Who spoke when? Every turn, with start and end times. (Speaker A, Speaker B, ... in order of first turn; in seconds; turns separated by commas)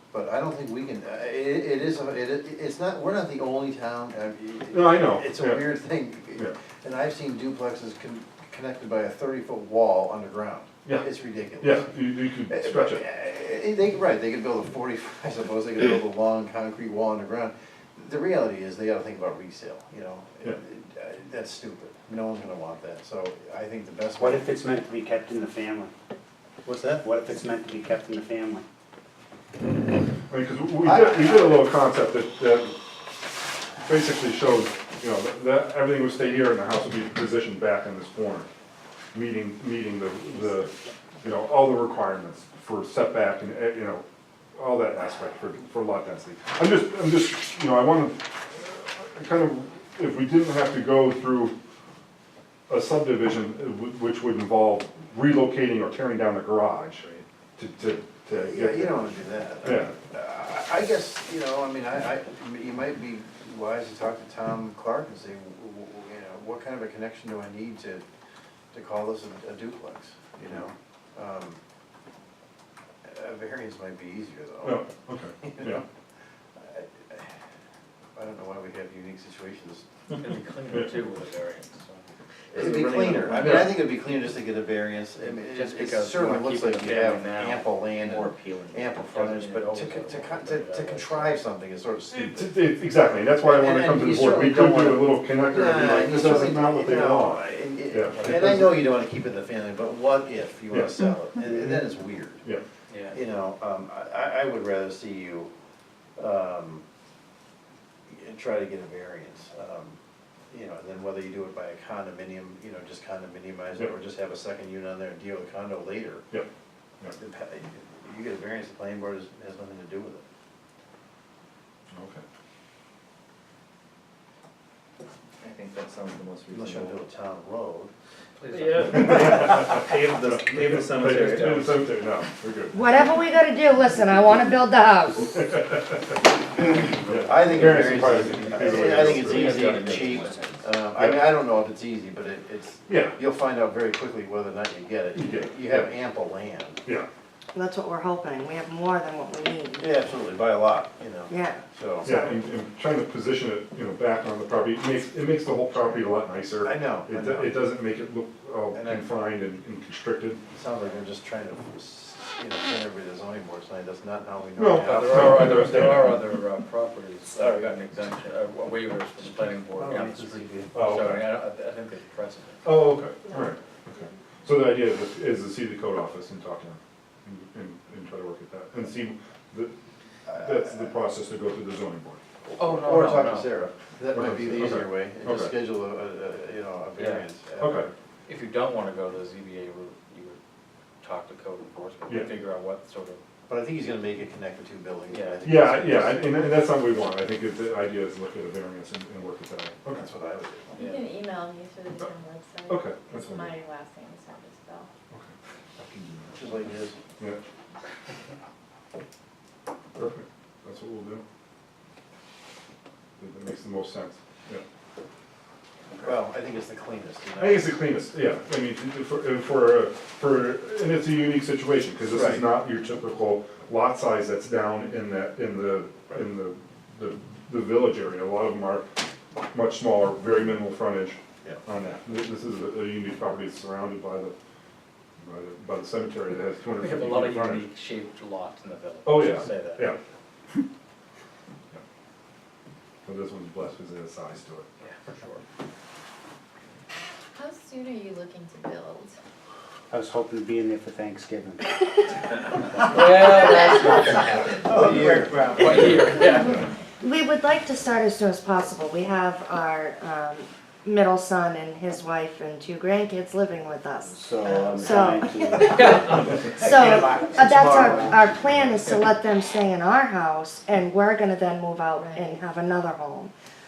Speaker A: 0.1-24.4, Speaker B: 4.7-5.7, Speaker B: 11.6-13.0, Speaker C: 24.1-25.9, Speaker A: 26.7-27.1, Speaker C: 27.0-28.6, Speaker B: 30.3-32.8, Speaker A: 30.8-31.7, Speaker B: 33.8-38.5, Speaker B: 39.1-44.0, Speaker B: 44.6-51.5, Speaker B: 52.7-59.0, Speaker A: 58.4-68.0, Speaker B: 59.6-59.9, Speaker A: 68.7-71.6, Speaker A: 73.0-74.9, Speaker B: 74.6-75.8, Speaker A: 75.4-75.8, Speaker A: 76.6-77.3, Speaker A: 78.2-79.9, Speaker D: 80.1-83.8, Speaker A: 82.5-92.8, Speaker B: 82.6-83.8, Speaker D: 85.2-91.4, Speaker B: 92.1-98.8, Speaker A: 93.4-102.4, Speaker D: 98.1-98.8, Speaker B: 100.7-101.0, Speaker D: 102.9-103.2, Speaker A: 103.1-105.5, Speaker A: 106.2-106.8, Speaker A: 108.1-110.0, Speaker A: 110.5-116.2, Speaker A: 117.1-120.2, Speaker B: 121.9-122.2, Speaker D: 125.4-126.9, Speaker A: 126.5-127.9, Speaker D: 128.4-131.7, Speaker B: 128.9-133.1, Speaker E: 132.7-135.5, Speaker B: 135.5-136.0, Speaker B: 137.0-140.2, Speaker A: 137.1-146.8, Speaker D: 138.6-140.6, Speaker B: 141.0-141.2, Speaker B: 142.9-143.2, Speaker B: 145.2-145.9, Speaker E: 147.5-149.9, Speaker A: 149.8-152.2, Speaker E: 151.3-151.6, Speaker B: 152.0-160.4, Speaker A: 156.6-157.7, Speaker A: 158.7-159.1, Speaker A: 160.5-165.8, Speaker B: 164.6-166.2, Speaker D: 164.8-172.7, Speaker A: 167.4-167.7, Speaker A: 169.8-170.8, Speaker B: 170.7-171.4, Speaker B: 172.7-179.7, Speaker A: 180.3-180.7, Speaker B: 180.3-182.2, Speaker A: 182.5-187.9, Speaker D: 182.6-183.6, Speaker B: 184.1-185.5, Speaker D: 187.0-187.3, Speaker B: 187.6-187.9, Speaker D: 188.3-190.4, Speaker D: 191.0-193.2, Speaker A: 193.5-196.4, Speaker D: 195.1-195.7, Speaker B: 195.4-200.0, Speaker A: 199.9-200.9, Speaker D: 200.8-201.1, Speaker F: 200.8-204.9, Speaker B: 202.7-203.6, Speaker B: 205.1-206.6, Speaker A: 206.3-207.0, Speaker B: 209.9-211.2, Speaker B: 213.2-214.6, Speaker A: 216.0-217.8, Speaker B: 217.4-228.9, Speaker A: 222.1-222.5, Speaker B: 229.5-234.3, Speaker B: 235.2-237.7, Speaker D: 236.7-240.0, Speaker B: 239.1-240.0, Speaker B: 243.1-244.7, Speaker D: 244.8-245.4, Speaker F: 247.3-249.2, Speaker C: 249.9-251.8, Speaker D: 252.8-256.6, Speaker A: 254.7-256.0, Speaker E: 257.0-265.9, Speaker C: 264.1-268.8, Speaker D: 265.7-267.9, Speaker E: 266.6-273.3, Speaker F: 272.0-272.4